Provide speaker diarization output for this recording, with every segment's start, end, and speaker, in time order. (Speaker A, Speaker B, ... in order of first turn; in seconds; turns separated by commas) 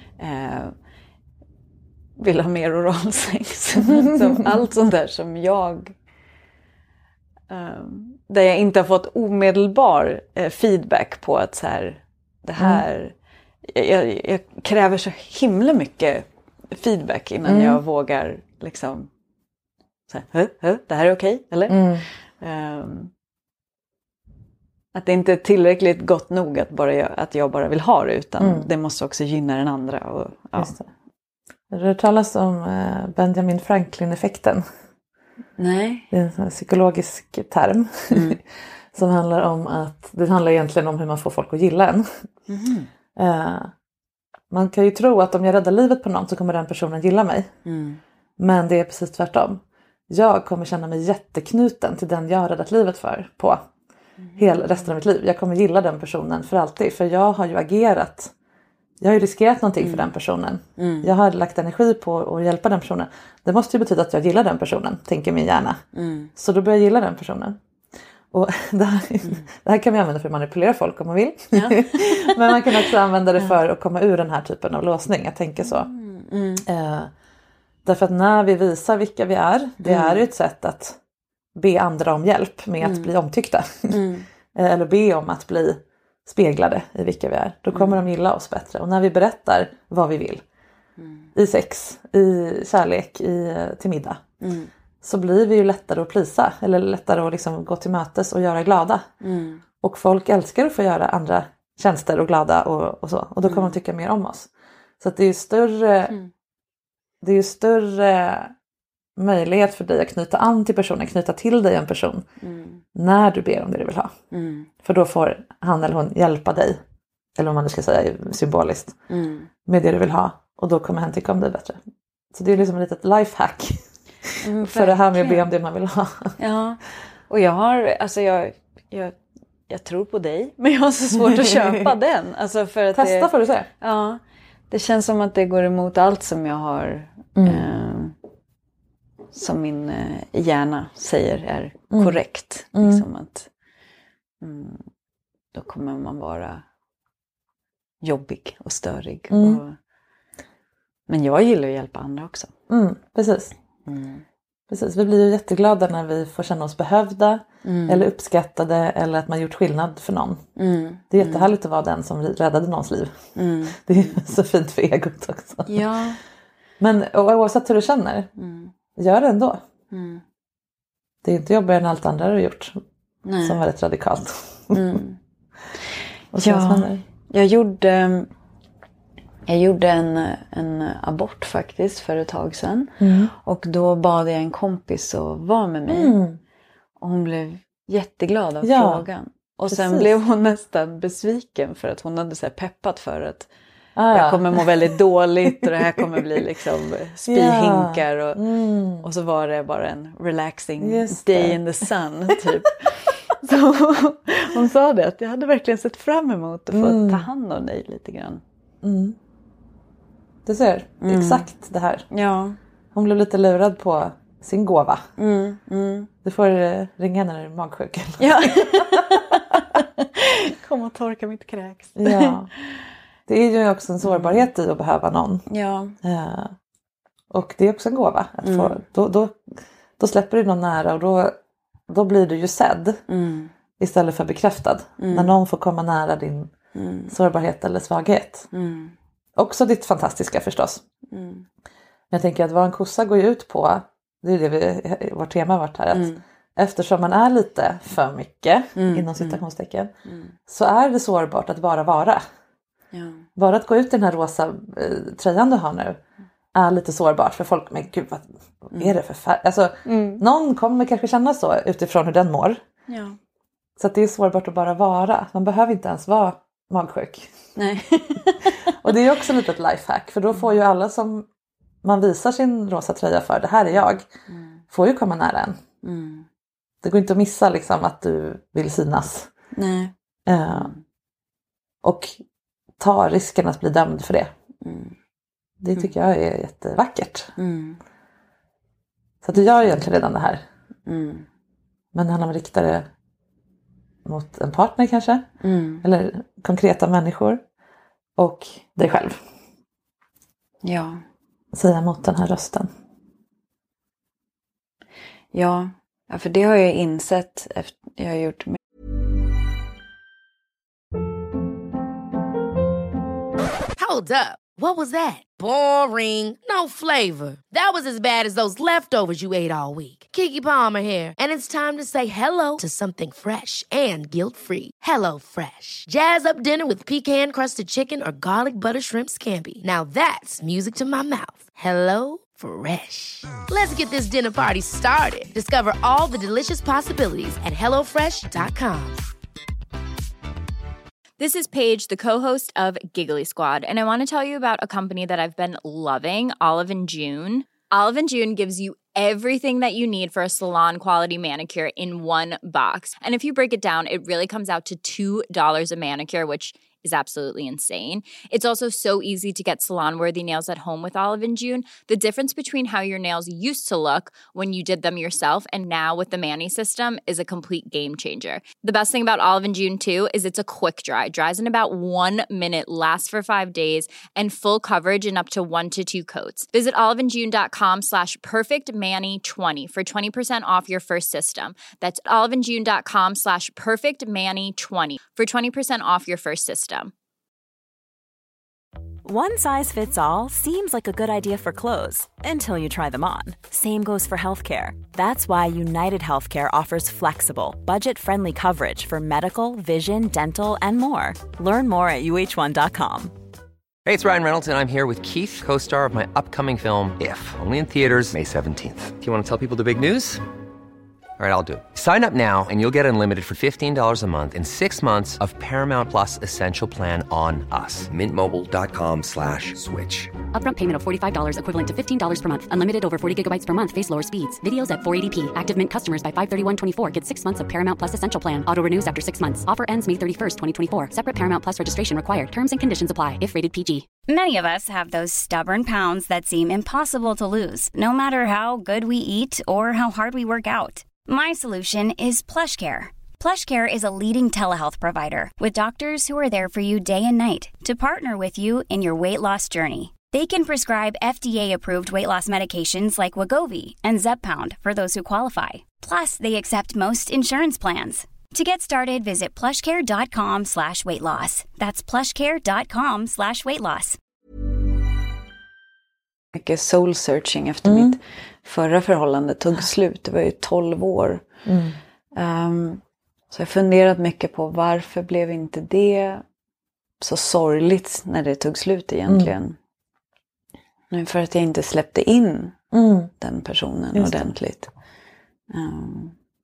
Speaker A: 0.2-0.7, Speaker A: 2.2-5.9, Speaker B: 4.0-4.4, Speaker A: 7.5-13.1, Speaker B: 12.6-12.8, Speaker A: 13.6-19.1, Speaker B: 17.4-17.8, Speaker A: 20.1-23.1, Speaker B: 21.7-22.0, Speaker A: 24.9-30.7, Speaker B: 28.4-28.7, Speaker B: 30.6-30.9, Speaker B: 31.7-34.6, Speaker A: 35.6-36.1, Speaker B: 36.1-38.4, Speaker A: 38.1-38.4, Speaker B: 38.9-42.1, Speaker A: 42.5-42.9, Speaker B: 43.1-43.7, Speaker B: 44.5-47.5, Speaker A: 47.6-48.0, Speaker B: 48.4-53.6, Speaker A: 54.2-54.8, Speaker B: 54.4-58.3, Speaker B: 59.0-65.8, Speaker A: 59.8-60.1, Speaker A: 60.8-61.1, Speaker A: 65.9-66.3, Speaker B: 66.3-67.6, Speaker B: 68.3-75.9, Speaker A: 71.5-72.8, Speaker A: 75.6-76.7, Speaker B: 76.6-77.1, Speaker B: 77.8-81.0, Speaker A: 79.8-80.2, Speaker B: 81.5-84.0, Speaker A: 82.8-83.1, Speaker A: 83.9-84.3, Speaker B: 84.5-90.4, Speaker A: 87.7-88.0, Speaker A: 91.0-91.3, Speaker B: 91.3-94.2, Speaker A: 94.4-94.7, Speaker B: 95.0-99.1, Speaker A: 99.2-99.6, Speaker B: 99.8-106.2, Speaker A: 103.4-103.8, Speaker B: 107.2-108.5, Speaker B: 109.2-112.2, Speaker A: 112.4-112.8, Speaker B: 112.9-114.1, Speaker A: 114.3-114.7, Speaker B: 114.8-116.8, Speaker B: 117.4-119.0, Speaker A: 119.1-119.5, Speaker B: 119.7-121.8, Speaker B: 122.3-126.3, Speaker A: 124.4-125.4, Speaker A: 126.4-129.1, Speaker A: 129.7-138.2, Speaker B: 131.3-131.9, Speaker B: 132.9-133.7, Speaker B: 137.3-137.7, Speaker A: 139.3-143.5, Speaker B: 141.9-142.2, Speaker B: 142.7-143.0, Speaker A: 144.4-144.8, Speaker A: 145.5-146.6, Speaker A: 148.0-149.8, Speaker B: 149.3-149.6, Speaker A: 151.1-152.5, Speaker B: 152.7-153.5, Speaker A: 153.8-154.2, Speaker B: 154.7-160.4, Speaker A: 157.6-158.1, Speaker A: 160.6-161.5, Speaker B: 161.1-163.2, Speaker A: 163.3-164.2, Speaker B: 163.7-165.8, Speaker A: 165.7-166.2, Speaker B: 166.8-168.3, Speaker A: 168.4-168.7, Speaker B: 168.9-169.6, Speaker A: 169.9-170.2, Speaker B: 171.2-172.8, Speaker A: 173.2-173.6, Speaker B: 173.4-175.0, Speaker A: 174.7-175.2, Speaker B: 176.3-177.0, Speaker A: 176.4-178.3, Speaker A: 179.5-186.2, Speaker B: 183.0-183.3, Speaker B: 185.9-186.4, Speaker A: 187.0-193.5, Speaker B: 188.6-189.0, Speaker B: 189.7-190.1, Speaker B: 193.9-194.7, Speaker A: 194.1-198.4, Speaker B: 195.5-196.0, Speaker B: 197.3-199.1, Speaker A: 199.0-208.4, Speaker B: 200.8-201.8, Speaker B: 206.7-207.3, Speaker B: 208.8-209.2, Speaker B: 210.4-212.1, Speaker A: 211.0-211.5, Speaker A: 212.1-212.6, Speaker B: 212.9-215.1, Speaker A: 215.2-216.1, Speaker B: 216.2-219.8, Speaker A: 218.2-222.4, Speaker B: 221.9-222.5, Speaker B: 223.3-225.4, Speaker A: 224.0-224.4, Speaker A: 225.5-225.9, Speaker B: 226.0-226.5, Speaker B: 227.3-229.4, Speaker A: 228.4-228.8, Speaker B: 230.0-231.3, Speaker B: 231.9-233.0, Speaker A: 233.1-233.5, Speaker B: 233.8-236.5, Speaker A: 235.0-235.3, Speaker A: 236.7-237.1, Speaker B: 237.1-238.5, Speaker A: 238.5-238.9, Speaker B: 239.3-240.8, Speaker A: 241.1-241.4, Speaker B: 242.1-249.9, Speaker A: 245.9-246.2, Speaker A: 248.8-249.4, Speaker A: 250.0-250.3, Speaker B: 250.5-252.2, Speaker A: 252.9-253.2, Speaker B: 253.3-256.0, Speaker B: 256.5-262.6, Speaker A: 259.8-260.2, Speaker A: 262.9-263.2, Speaker B: 263.8-267.3, Speaker A: 267.6-268.9, Speaker B: 268.7-271.3, Speaker B: 271.8-274.1, Speaker A: 274.3-274.6, Speaker B: 274.7-275.6, Speaker A: 275.8-276.2, Speaker B: 276.8-279.3, Speaker A: 279.5-279.9, Speaker B: 280.2-280.7, Speaker A: 280.5-280.8, Speaker B: 281.8-282.2, Speaker B: 282.8-284.3, Speaker A: 284.6-284.9, Speaker B: 285.6-287.3, Speaker A: 287.4-287.8, Speaker B: 289.2-290.4, Speaker A: 289.4-289.8, Speaker A: 290.9-291.2, Speaker B: 291.9-292.9, Speaker B: 294.0-295.3, Speaker A: 295.4-295.8, Speaker B: 295.8-297.4, Speaker B: 298.2-299.2, Speaker A: 300.6-301.0, Speaker B: 301.5-302.7, Speaker A: 305.3-308.6, Speaker C: 313.8-339.0, Speaker D: 341.2-386.9, Speaker E: 389.0-403.1, Speaker F: 403.8-410.2, Speaker F: 411.2-420.1, Speaker G: 420.3-433.8, Speaker H: 434.1-464.0, Speaker A: 466.3-471.2, Speaker B: 467.6-468.0, Speaker B: 471.4-471.8, Speaker A: 472.1-476.2, Speaker A: 477.0-479.6, Speaker B: 479.1-479.3, Speaker A: 480.9-482.6, Speaker B: 482.7-483.1, Speaker A: 483.2-484.7, Speaker B: 483.9-484.3, Speaker A: 485.5-486.1